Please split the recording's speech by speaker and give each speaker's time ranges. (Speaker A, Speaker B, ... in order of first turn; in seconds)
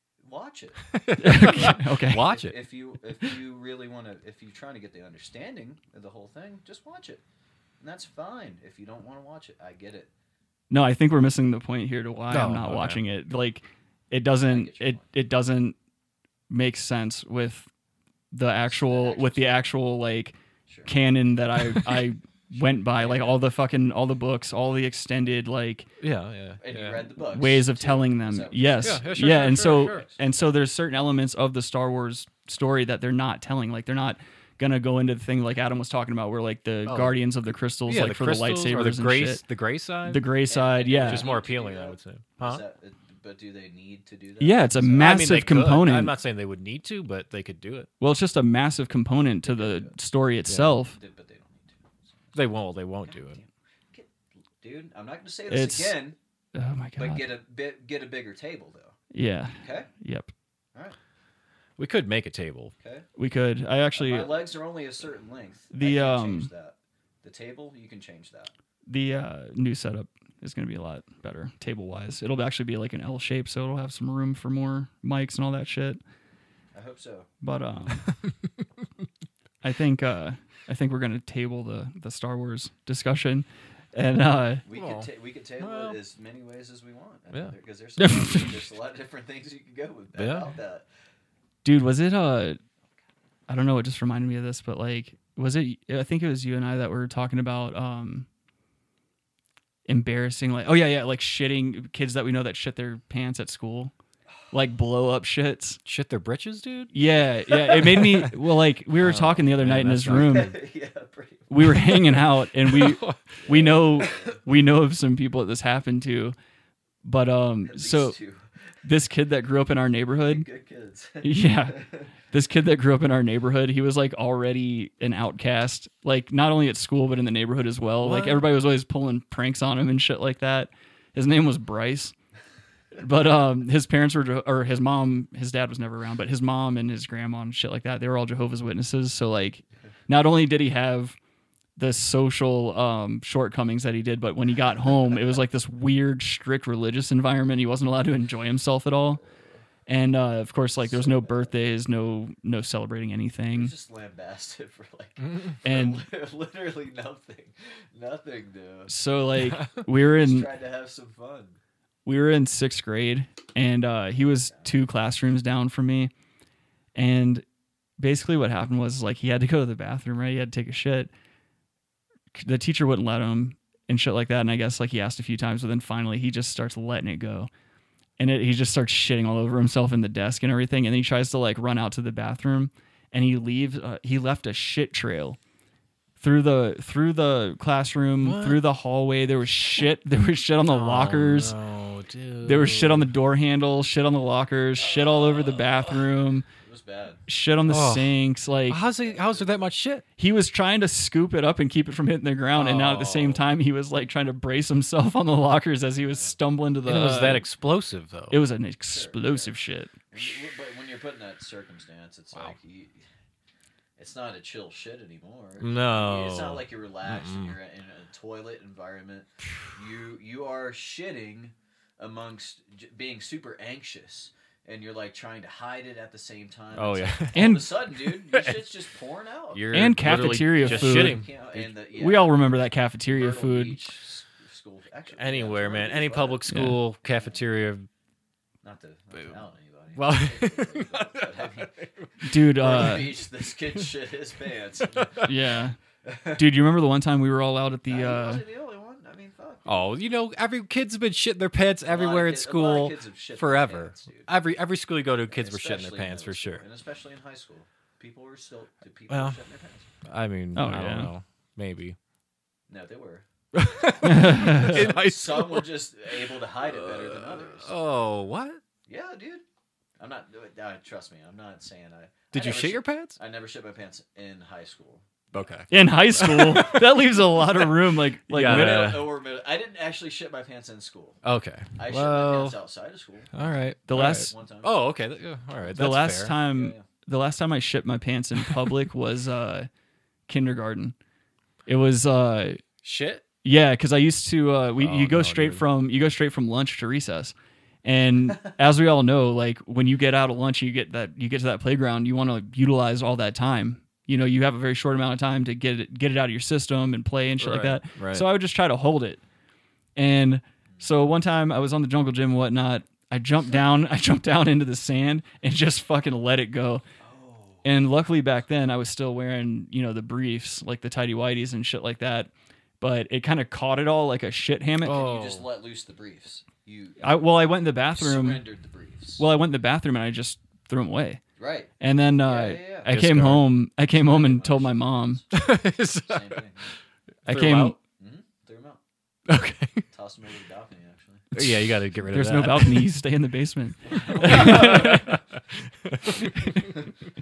Speaker A: 0.2-7.2, 7.8-10.1, 14.5-15.1, 18.6-19.7, 22.6-23.4, 26.6-29.1, 29.8-30.1, 40.5-45.5, 49.5-49.9, 51.0-52.5, 53.0-56.2, 57.0-59.0, 59.6-59.9, 64.0-68.5, 76.7-77.3, 84.7-90.9, 107.5-108.0, 110.1-111.7, 113.5-114.4, 117.7-118.8, 120.2-122.1, 150.8-151.5, 153.5-158.9, 160.0-161.6, 194.8-195.9, 196.6-197.2, 198.7-199.7, 208.9-209.6, 210.1-213.0, 214.0-232.5, 233.1-236.5, 237.1-237.4, 238.6-241.8, 242.4-245.4, 246.0-246.5, 247.9-249.9, 251.8-254.3, 255.3-259.9, 262.7-263.2, 264.2-267.7, 268.9-269.4, 270.0-275.6, 278.4-281.2, 281.8-284.8, 286.5-286.8, 317.0-317.6, 324.8-329.2, 331.4-332.9, 333.9-336.7, 337.9-338.8, 339.9-341.3, 343.9-345.0
Speaker B: 0.9-2.6, 12.3-13.0, 26.0-27.1, 28.8-30.1, 36.9-37.2, 37.9-40.3, 41.0-42.6, 45.0-47.9, 50.5-50.8, 52.3-53.4, 61.8-62.7, 78.1-78.5, 84.7-86.0, 90.2-90.5, 105.8-106.9, 107.7-108.3, 109.0-110.5, 112.6-113.5, 128.0-128.5, 155.2-155.6, 188.2-188.6, 190.7-193.1, 197.7-198.2, 198.7-200.1, 202.5-203.4, 206.9-208.4, 215.6-217.6, 226.7-228.6, 229.5-231.7, 235.2-237.9, 239.9-243.1, 244.9-245.3, 249.7-256.6, 259.1-259.4, 260.0-262.0, 263.5-268.6, 272.3-273.2, 275.3-277.0, 278.3-279.2, 281.2-282.6, 283.3-286.4, 292.8-293.2, 294.8-295.6, 307.4-308.3, 324.8-325.5, 332.9-333.5, 335.3-336.8, 337.3-337.8, 339.3-339.9, 341.4-342.9, 344.0-346.6
Speaker C: 1.2-2.3, 10.7-15.8, 16.5-17.7, 18.3-20.4, 20.9-25.9, 27.3-39.4, 40.0-41.3, 44.4-46.1, 48.0-51.0, 55.5-56.0, 56.5-57.3, 59.1-60.3, 63.2-64.3, 65.7-66.5, 68.9-76.0, 77.4-78.1, 79.6-84.6, 88.0-88.6, 91.6-92.6, 93.5-98.3, 99.9-103.9, 104.5-105.8, 106.9-110.5, 111.5-116.3, 117.0-118.2, 118.8-120.5, 121.2-132.1, 132.9-141.2, 141.8-149.2, 149.9-153.7, 155.6-156.0, 158.9-160.5, 162.1-166.1, 166.9-167.4, 168.0-171.1, 172.3-177.5, 178.2-185.4, 186.2-191.6, 192.4-196.5, 197.3-198.8, 200.2-207.5, 208.3-210.0, 227.3-227.7, 229.7-231.3, 231.9-233.8, 236.5-236.8, 242.2-243.1, 245.2-245.8, 246.3-248.4, 260.6-261.1, 264.0-264.8, 275.7-278.9, 283.9-284.3, 285.8-289.7, 290.3-290.9, 291.7-292.6, 293.4-309.2, 310.0-316.8, 317.6-325.1, 327.0-328.4, 329.2-331.2, 331.8-335.2, 337.3-337.8, 341.4-345.2, 346.2-346.7